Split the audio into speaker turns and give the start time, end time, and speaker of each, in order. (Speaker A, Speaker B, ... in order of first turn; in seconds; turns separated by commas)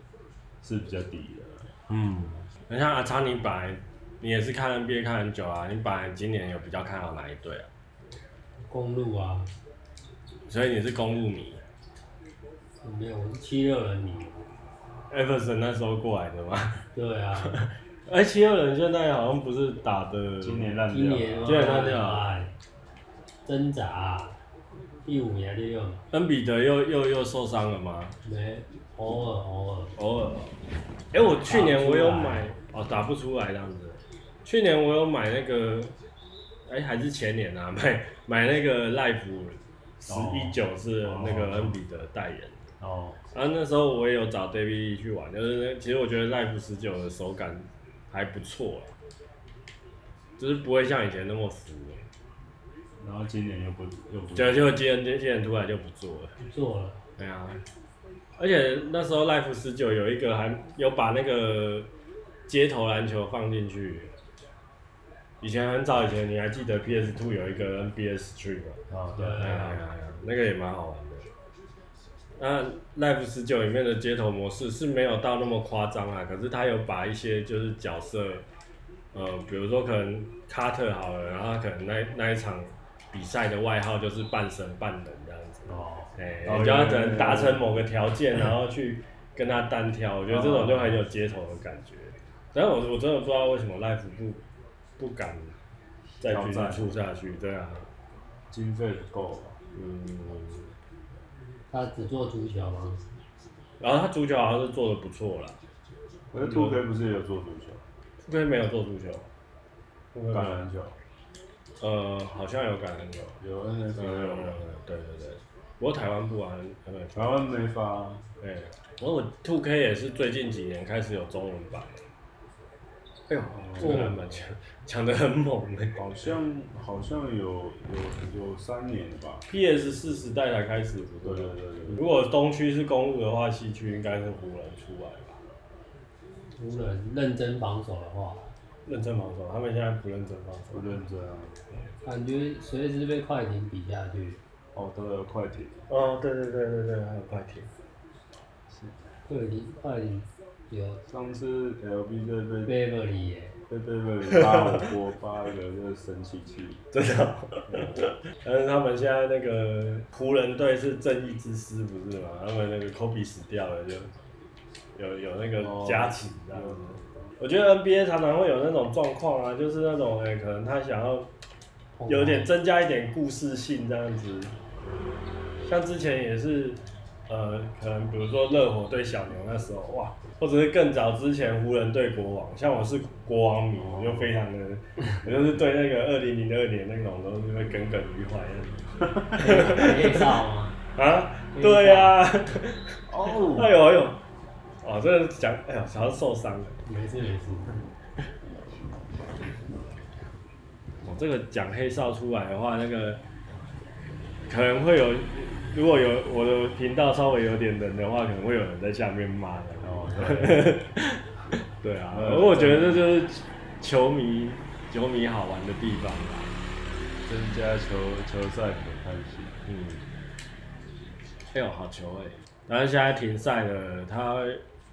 Speaker A: 0.6-1.7, Speaker B: 1.9-7.7, Speaker C: 8.7-9.5, Speaker B: 10.5-11.6, Speaker C: 12.8-14.5, Speaker B: 15.1-16.8, Speaker C: 16.9-17.7, Speaker B: 17.4-20.7, Speaker A: 20.4-22.0, Speaker C: 20.9-22.5, Speaker B: 21.4-22.3, Speaker C: 23.4-24.4, Speaker C: 25.0-26.0, Speaker B: 26.1-28.1, Speaker C: 28.2-29.9, Speaker B: 29.9-30.5, Speaker B: 31.1-35.9, Speaker C: 31.4-32.5, Speaker B: 36.7-42.6, Speaker A: 40.1-41.8, Speaker A: 42.8-43.2, Speaker B: 43.3-48.9, Speaker B: 50.4-52.0, Speaker A: 53.0-54.8, Speaker B: 54.3-56.3, Speaker C: 56.4-57.0, Speaker B: 57.2-57.6, Speaker B: 58.4-61.9, Speaker B: 62.5-64.1, Speaker B: 65.4-71.3, Speaker A: 68.9-69.7, Speaker C: 69.2-69.8, Speaker B: 72.4-78.5, Speaker B: 79.1-94.4, Speaker A: 85.7-87.7, Speaker A: 90.3-91.0, Speaker B: 95.0-95.5, Speaker B: 96.2-97.9, Speaker A: 96.2-97.0, Speaker A: 98.5-99.6, Speaker B: 99.7-100.7, Speaker C: 101.7-103.0, Speaker B: 103.8-105.6, Speaker A: 106.3-107.8, Speaker B: 106.4-106.8, Speaker B: 108.2-109.3, Speaker B: 110.1-110.6, Speaker A: 110.3-111.0, Speaker B: 111.8-113.3, Speaker A: 113.4-114.6, Speaker B: 114.0-117.3, Speaker A: 117.1-118.3, Speaker B: 118.4-122.0, Speaker B: 123.3-126.1, Speaker A: 123.5-124.2, Speaker A: 125.9-129.4, Speaker B: 129.5-135.4, Speaker A: 131.2-132.1, Speaker C: 136.6-138.5, Speaker B: 138.8-140.8, Speaker A: 140.7-141.6, Speaker C: 142.0-144.4, Speaker A: 144.7-145.9, Speaker B: 145.9-147.7, Speaker A: 148.7-149.0, Speaker C: 149.3-151.0, Speaker A: 151.1-152.7, Speaker C: 152.7-153.6, Speaker A: 153.7-156.8, Speaker B: 156.9-164.1, Speaker A: 157.7-158.0, Speaker B: 164.9-171.3, Speaker A: 165.6-167.0, Speaker C: 172.0-172.5, Speaker B: 172.1-174.6, Speaker B: 175.6-190.4, Speaker A: 183.8-184.3, Speaker C: 189.4-190.8, Speaker B: 190.9-194.2, Speaker C: 191.5-192.2, Speaker A: 193.1-193.7, Speaker B: 194.8-196.7, Speaker C: 196.8-197.8, Speaker B: 201.0-203.2, Speaker B: 204.5-216.6, Speaker A: 209.8-210.8, Speaker A: 212.1-213.1, Speaker A: 217.2-219.6, Speaker B: 219.7-220.1, Speaker B: 221.5-224.6